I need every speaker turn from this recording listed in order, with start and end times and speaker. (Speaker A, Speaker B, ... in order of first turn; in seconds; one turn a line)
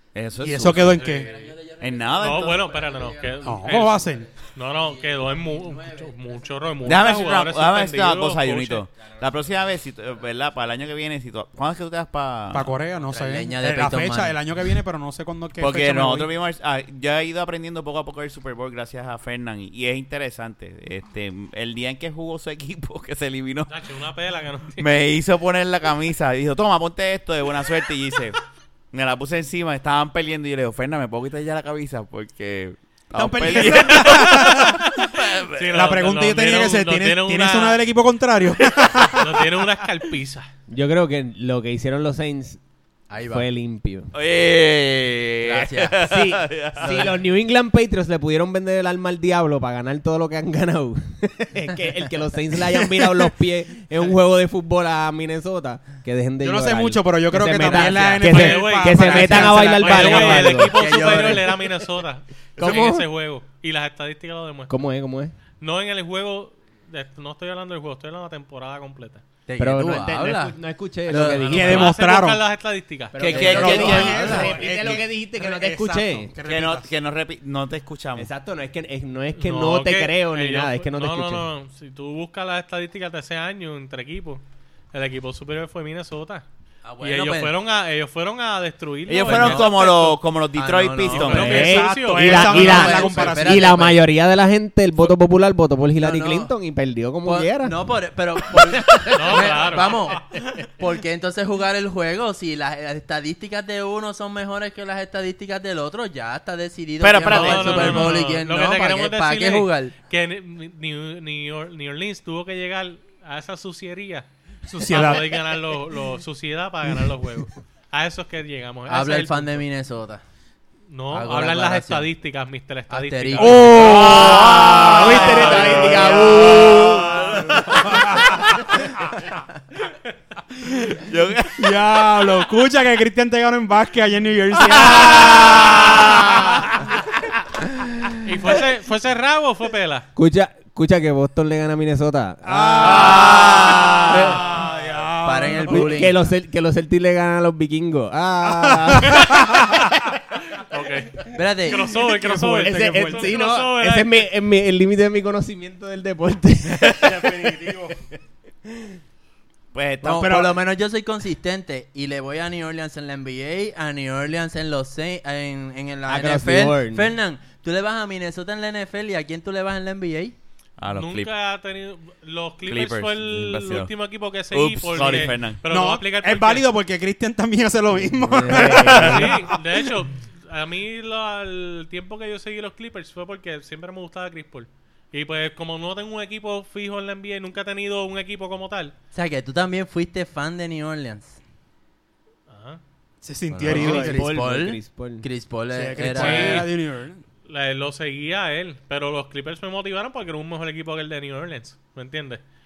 Speaker A: 0.1-1.2
Speaker B: 0.4-1.3
Speaker C: 0.9-7.1
Speaker D: 0.9-1.4
Speaker A: 1.8-2.6
Speaker D: 2.2-8.9
Speaker B: 3.4-4.3
Speaker A: 6.8-12.8
Speaker C: 9.0-9.3
Speaker B: 12.5-16.3
Speaker C: 13.0-14.4
Speaker A: 15.6-23.7
Speaker D: 23.7-24.8
Speaker A: 24.8-28.4
Speaker A: 28.9-35.7
Speaker B: 33.1-35.0
Speaker D: 35.5-37.8
Speaker B: 35.7-39.6
Speaker D: 39.1-40.5
Speaker E: 40.7-42.6
Speaker C: 43.1-43.5
Speaker E: 43.2-44.1
Speaker A: 44.1-47.1
Speaker C: 45.4-46.1
Speaker E: 46.0-61.4
Speaker C: 46.8-47.1
Speaker B: 56.4-60.7
Speaker C: 57.7-58.3
Speaker D: 58.2-64.7
Speaker C: 60.4-61.6
Speaker A: 62.6-62.8
Speaker E: 62.6-63.0
Speaker E: 64.7-65.3
Speaker D: 65.6-69.2
Speaker C: 69.5-71.7
Speaker E: 69.6-71.9
Speaker D: 71.1-73.7
Speaker B: 71.5-72.4
Speaker E: 73.1-76.3
Speaker A: 73.2-74.9
Speaker B: 73.2-76.9
Speaker A: 76.4-78.3
Speaker E: 78.2-81.5
Speaker D: 79.3-86.4
Speaker C: 86.8-87.5
Speaker D: 87.0-90.2
Speaker A: 89.1-91.7
Speaker C: 89.2-89.8
Speaker C: 90.5-91.6
Speaker D: 91.1-93.2
Speaker E: 91.3-97.8
Speaker B: 91.5-93.9
Speaker C: 92.5-94.0
Speaker C: 96.0-96.5
Speaker C: 97.2-109.9
Speaker E: 98.5-99.5
Speaker D: 99.1-100.1
Speaker A: 107.0-108.2
Speaker D: 107.2-114.3
Speaker B: 114.7-115.5
Speaker D: 114.8-119.6
Speaker C: 118.9-120.2
Speaker D: 120.9-126.5
Speaker C: 121.1-122.1
Speaker C: 122.9-125.1
Speaker B: 123.4-129.1
Speaker A: 123.8-128.7
Speaker E: 124.9-126.8
Speaker C: 125.7-126.8
Speaker B: 130.6-131.0
Speaker A: 130.9-131.9
Speaker B: 131.6-137.0
Speaker A: 134.7-136.6
Speaker D: 138.2-140.1
Speaker E: 140.2-143.6
Speaker B: 142.4-146.1
Speaker A: 142.8-144.3
Speaker C: 144.1-144.4
Speaker E: 144.1-144.4
Speaker C: 145.2-146.2
Speaker E: 145.6-149.9
Speaker B: 148.4-149.9
Speaker D: 150.5-154.2
Speaker C: 151.3-151.9
Speaker B: 152.0-153.3
Speaker E: 152.6-157.8
Speaker B: 156.9-158.0
Speaker E: 158.7-158.9
Speaker A: 159.7-160.4
Speaker C: 160.0-170.3
Speaker B: 160.2-160.5
Speaker E: 166.1-167.1
Speaker A: 170.8-171.3
Speaker D: 170.9-176.7
Speaker A: 172.7-173.9
Speaker A: 174.5-175.6
Speaker B: 175.7-179.8
Speaker E: 178.0-179.3
Speaker A: 178.5-179.2
Speaker D: 178.8-188.9
Speaker C: 189.1-191.4
Speaker D: 192.5-192.8
Speaker B: 193.2-194.2
Speaker C: 193.5-196.7
Speaker E: 193.6-195.2
Speaker B: 195.7-197.2
Speaker D: 196.1-196.7
Speaker D: 197.5-202.4